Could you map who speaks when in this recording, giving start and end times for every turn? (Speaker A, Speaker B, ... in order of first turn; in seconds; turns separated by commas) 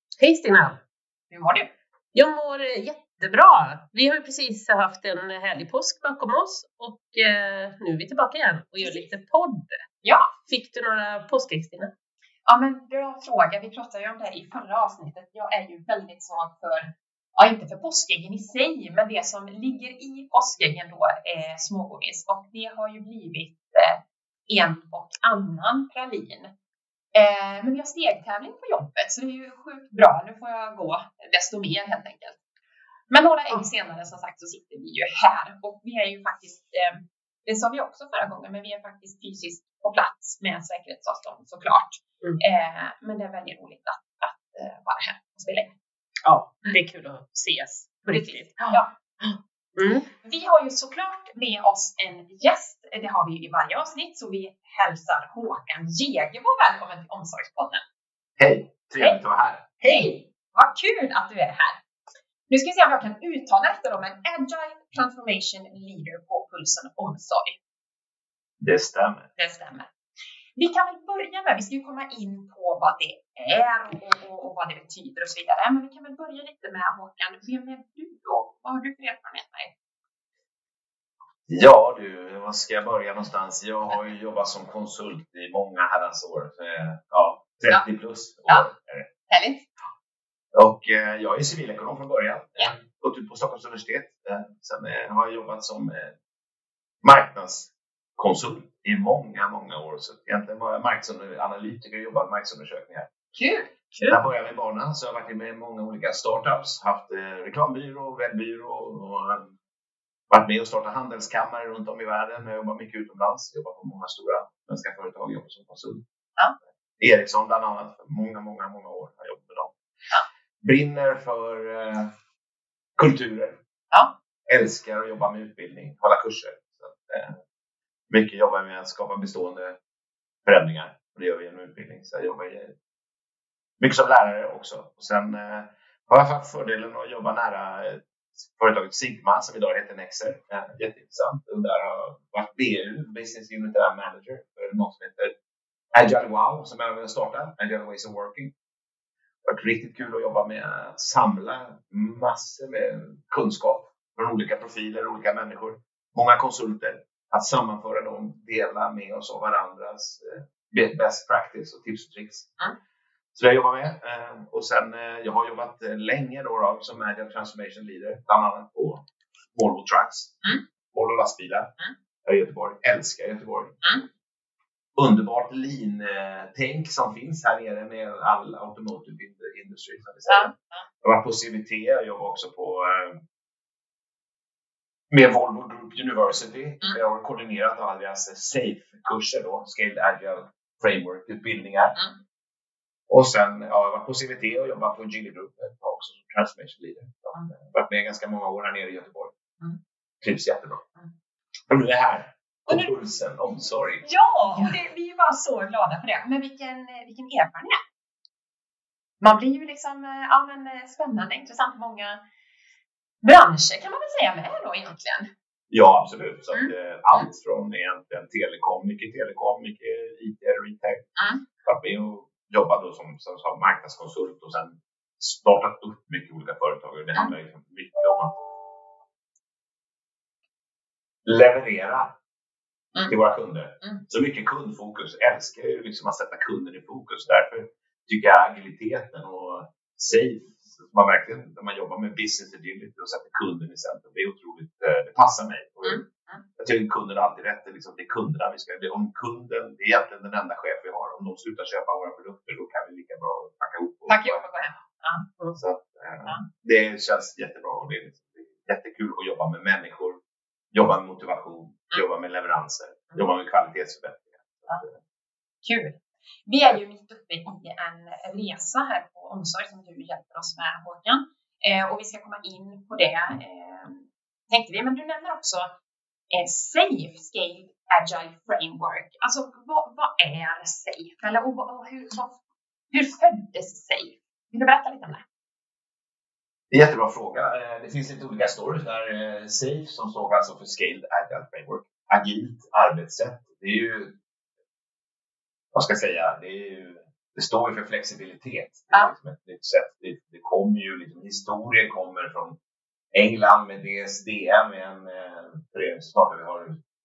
Speaker A: 0.2-0.8, Speaker B: 1.3-1.7, Speaker A: 2.1-9.8, Speaker B: 8.8-9.1, Speaker B: 10.0-10.3, Speaker A: 10.4-11.9, Speaker B: 12.4-26.5, Speaker B: 27.1-32.4, Speaker B: 33.1-45.7, Speaker A: 46.2-50.1, Speaker B: 48.1-48.9, Speaker B: 50.1-57.8, Speaker C: 58.4-60.0, Speaker B: 59.8-61.8, Speaker B: 62.5-67.6, Speaker C: 68.6-69.3, Speaker B: 69.4-69.9, Speaker B: 70.5-79.7, Speaker C: 81.5-89.1, Speaker B: 89.3-89.7, Speaker C: 90.5-96.1, Speaker C: 97.0-103.1, Speaker B: 103.3-103.7, Speaker A: 103.9-104.2, Speaker C: 104.1-109.5, Speaker C: 110.3-116.0, Speaker C: 117.0-119.7, Speaker C: 120.6-122.1, Speaker C: 123.0-123.6, Speaker C: 124.5-127.4, Speaker C: 128.1-129.8, Speaker C: 130.4-132.7, Speaker C: 133.8-145.3, Speaker C: 145.9-148.5, Speaker C: 149.4-162.5, Speaker C: 163.3-170.4, Speaker C: 170.9-171.7, Speaker C: 172.2-173.8, Speaker C: 174.9-183.2, Speaker B: 180.3-180.8, Speaker C: 185.1-192.0, Speaker C: 193.1-199.3, Speaker C: 200.2-200.8, Speaker C: 201.7-204.1, Speaker B: 204.0-207.8, Speaker B: 209.2-212.2, Speaker B: 213.2-215.3, Speaker C: 215.7-221.1, Speaker B: 216.5-217.3, Speaker B: 221.2-221.4, Speaker C: 221.6-228.4, Speaker C: 231.2-232.2, Speaker C: 233.1-246.0, Speaker B: 245.8-246.4, Speaker C: 246.6-254.5, Speaker B: 254.1-255.3, Speaker C: 255.5-260.2, Speaker C: 260.7-265.0, Speaker B: 265.6-275.7, Speaker B: 276.3-282.4, Speaker B: 282.9-285.2, Speaker C: 286.7-294.2, Speaker C: 295.7-302.6, Speaker C: 303.1-306.8